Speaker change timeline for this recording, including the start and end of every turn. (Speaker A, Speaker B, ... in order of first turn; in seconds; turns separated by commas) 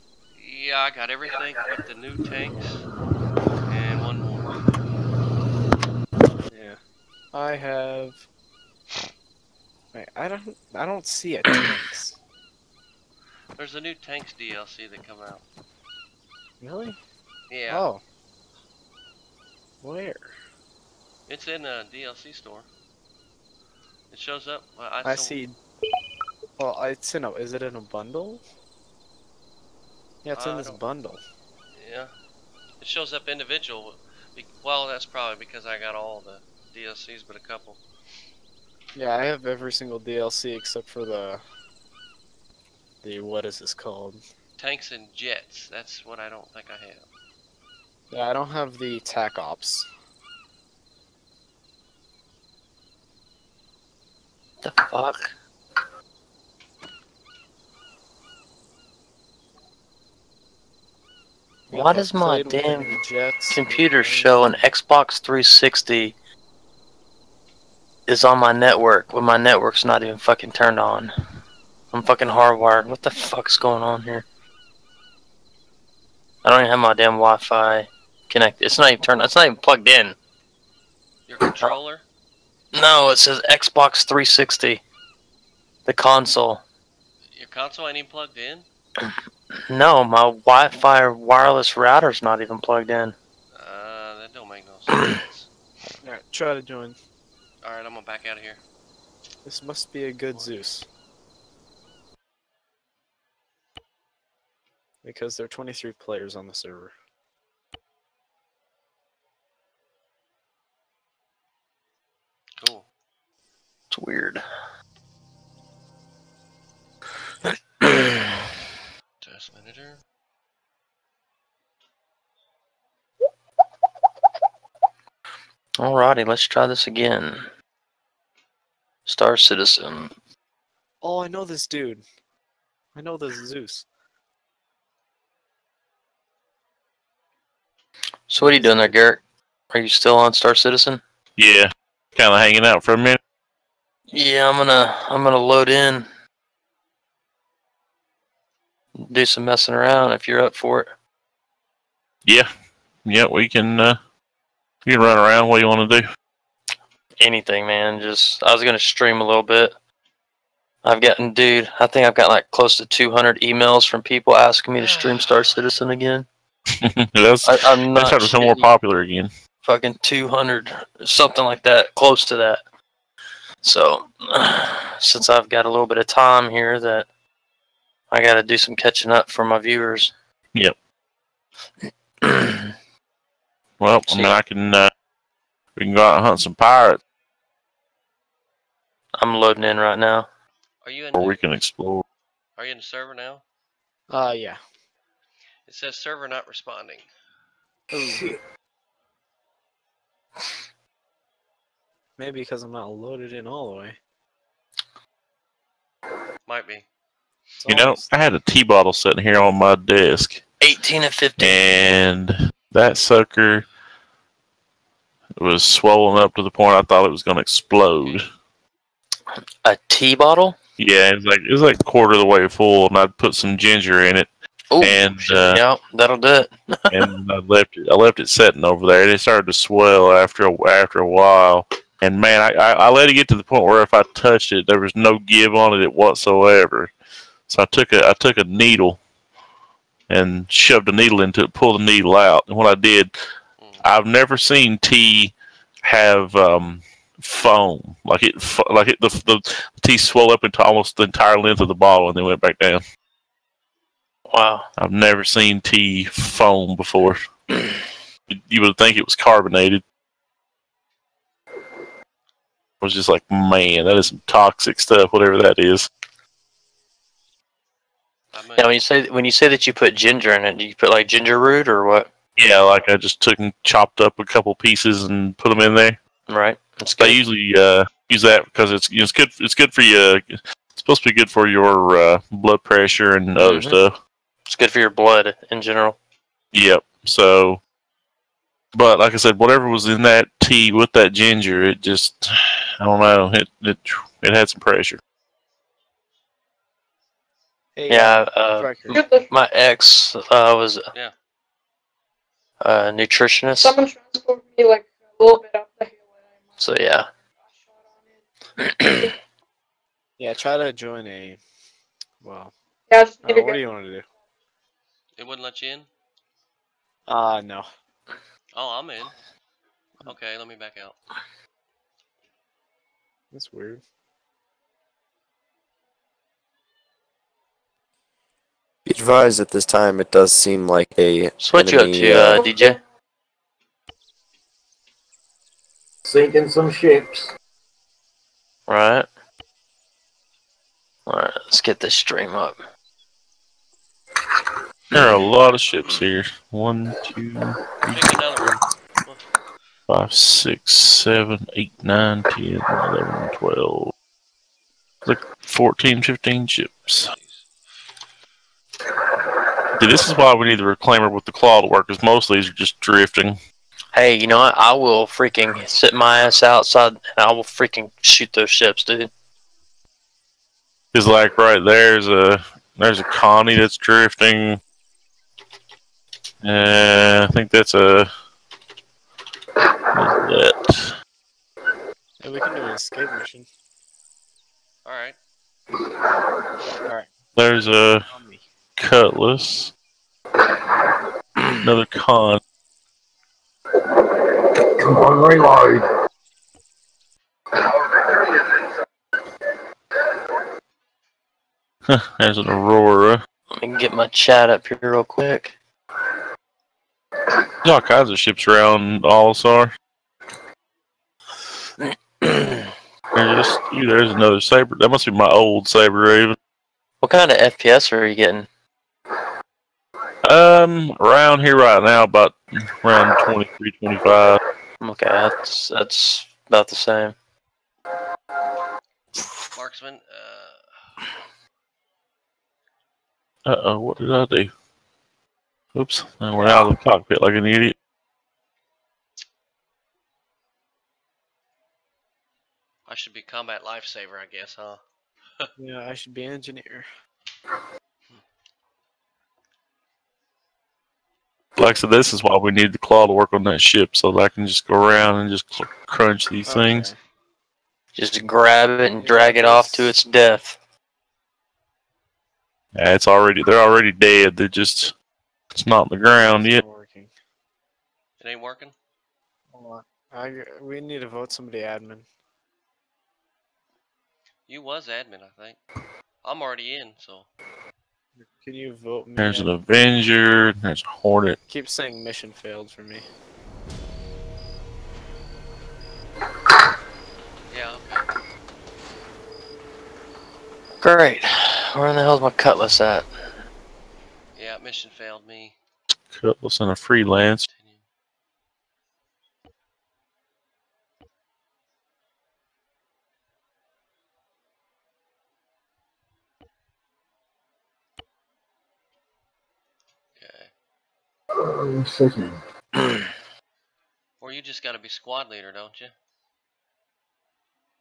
Speaker A: 0.3-2.8, Speaker A: 3.7-4.6, Speaker B: 6.5-6.8, Speaker B: 7.3-8.2, Speaker B: 9.9-12.2, Speaker A: 13.6-15.4, Speaker B: 16.6-17.0, Speaker A: 17.5-17.9, Speaker B: 17.7-18.0, Speaker B: 19.8-20.3, Speaker A: 21.3-22.7, Speaker A: 24.1-25.4, Speaker B: 25.0-25.6, Speaker B: 26.6-28.4, Speaker B: 30.2-31.2, Speaker A: 30.3-30.8, Speaker A: 31.7-32.1, Speaker A: 32.8-37.8, Speaker B: 38.9-41.4, Speaker B: 43.0-44.2, Speaker A: 44.6-47.0, Speaker B: 48.1-49.9, Speaker C: 54.6-55.3, Speaker B: 61.7-64.7, Speaker C: 61.7-63.0, Speaker C: 63.5-66.1, Speaker C: 68.1-71.1, Speaker C: 71.9-74.2, Speaker C: 76.4-80.2, Speaker A: 81.3-82.0, Speaker C: 82.7-84.8, Speaker C: 85.8-86.6, Speaker A: 87.3-88.7, Speaker C: 89.7-93.1, Speaker A: 93.5-95.5, Speaker B: 96.0-97.0, Speaker A: 97.6-98.6, Speaker B: 99.4-100.8, Speaker B: 105.0-106.9, Speaker A: 112.6-112.8, Speaker C: 113.9-114.4, Speaker C: 117.8-118.4, Speaker A: 119.2-120.0, Speaker C: 125.8-127.5, Speaker C: 129.1-130.1, Speaker B: 131.0-132.0, Speaker B: 132.9-133.8, Speaker C: 138.3-139.2, Speaker B: 138.4-139.0, Speaker C: 139.7-141.0, Speaker D: 141.4-143.2, Speaker C: 144.1-146.1, Speaker C: 149.0-150.9, Speaker D: 153.0-154.0, Speaker D: 154.8-156.0, Speaker C: 157.2-159.7, Speaker C: 160.8-166.2, Speaker A: 164.8-165.5, Speaker D: 166.8-169.3, Speaker C: 167.4-168.7, Speaker C: 169.6-172.6, Speaker C: 173.6-177.1, Speaker C: 178.1-180.1, Speaker C: 182.2-182.7, Speaker D: 183.8-184.9, Speaker C: 184.1-184.4, Speaker D: 185.8-187.0, Speaker C: 189.2-190.3, Speaker A: 190.8-191.4, Speaker D: 191.2-192.0, Speaker A: 192.6-193.4, Speaker B: 194.1-194.6, Speaker A: 195.7-197.1, Speaker B: 197.9-198.3, Speaker B: 202.2-204.0, Speaker A: 206.4-206.8, Speaker B: 207.6-208.1, Speaker D: 207.7-210.4, Speaker C: 210.6-211.8, Speaker D: 211.4-213.7, Speaker D: 215.4-218.3, Speaker C: 219.6-220.6, Speaker D: 220.8-224.3, Speaker C: 224.7-227.0, Speaker D: 224.8-225.6, Speaker D: 226.9-236.9, Speaker D: 237.5-239.0, Speaker D: 240.1-243.1, Speaker A: 243.6-243.8, Speaker D: 243.8-252.8, Speaker C: 254.3-254.7, Speaker D: 254.8-257.2, Speaker D: 258.3-259.8, Speaker D: 262.8-265.9, Speaker A: 268.3-268.8, Speaker C: 268.6-272.1, Speaker D: 272.4-276.0, Speaker C: 276.3-277.2, Speaker D: 277.0-283.9, Speaker C: 283.4-283.8, Speaker C: 284.5-286.0, Speaker D: 286.5-287.6, Speaker D: 288.7-295.0, Speaker B: 297.8-299.0, Speaker C: 297.9-300.8, Speaker E: 298.9-299.3, Speaker C: 302.6-303.7, Speaker E: 303.6-306.7, Speaker C: 306.6-307.1, Speaker E: 307.3-308.2, Speaker C: 308.6-309.1, Speaker B: 310.2-311.4, Speaker B: 312.2-312.5, Speaker E: 312.9-313.6, Speaker B: 313.2-314.0, Speaker A: 315.2-315.9, Speaker B: 317.1-317.6, Speaker A: 318.5-319.1, Speaker A: 320.0-321.0, Speaker B: 323.3-323.8, Speaker F: 328.8-332.4, Speaker C: 331.4-332.8, Speaker E: 332.4-332.8, Speaker G: 336.1-337.3, Speaker C: 338.7-339.1, Speaker C: 341.1-342.6, Speaker D: 344.9-348.6, Speaker A: 347.9-349.2, Speaker D: 349.9-353.9, Speaker D: 355.0-357.1, Speaker A: 356.9-357.5, Speaker D: 359.8-363.4, Speaker C: 363.9-369.1, Speaker D: 370.9-374.6, Speaker D: 376.4-378.1, Speaker D: 379.9-380.9, Speaker B: 382.2-383.5, Speaker A: 384.8-385.2, Speaker B: 386.8-387.1, Speaker D: 387.4-388.1, Speaker B: 388.1-388.4, Speaker D: 388.8-389.7, Speaker D: 391.6-392.4, Speaker G: 393.9-395.8, Speaker G: 397.5-398.5, Speaker D: 401.9-403.2, Speaker C: 403.6-405.6, Speaker D: 407.6-409.7, Speaker C: 412.2-412.7, Speaker D: 413.1-416.4, Speaker C: 417.0-418.5, Speaker D: 420.2-424.4, Speaker C: 424.8-427.1, Speaker A: 429.5-431.1, Speaker D: 433.4-434.5, Speaker D: 435.7-437.8, Speaker C: 436.4-436.7, Speaker A: 442.9-444.8, Speaker B: 445.6-446.9, Speaker D: 451.6-456.9, Speaker B: 456.5-457.0, Speaker C: 457.9-460.6, Speaker B: 459.0-459.9, Speaker D: 462.7-464.9, Speaker D: 465.5-466.6, Speaker B: 466.2-467.1, Speaker A: 468.2-468.7, Speaker B: 469.5-472.1, Speaker A: 474.5-475.6, Speaker A: 476.2-477.3, Speaker B: 478.2-479.5, Speaker D: 479.2-481.4, Speaker B: 481.5-483.1, Speaker A: 487.5-488.1, Speaker C: 490.8-493.1, Speaker A: 494.3-495.5, Speaker D: 496.1-497.5, Speaker A: 497.5-497.8, Speaker A: 510.1-510.5, Speaker G: 511.4-513.0, Speaker A: 514.2-515.9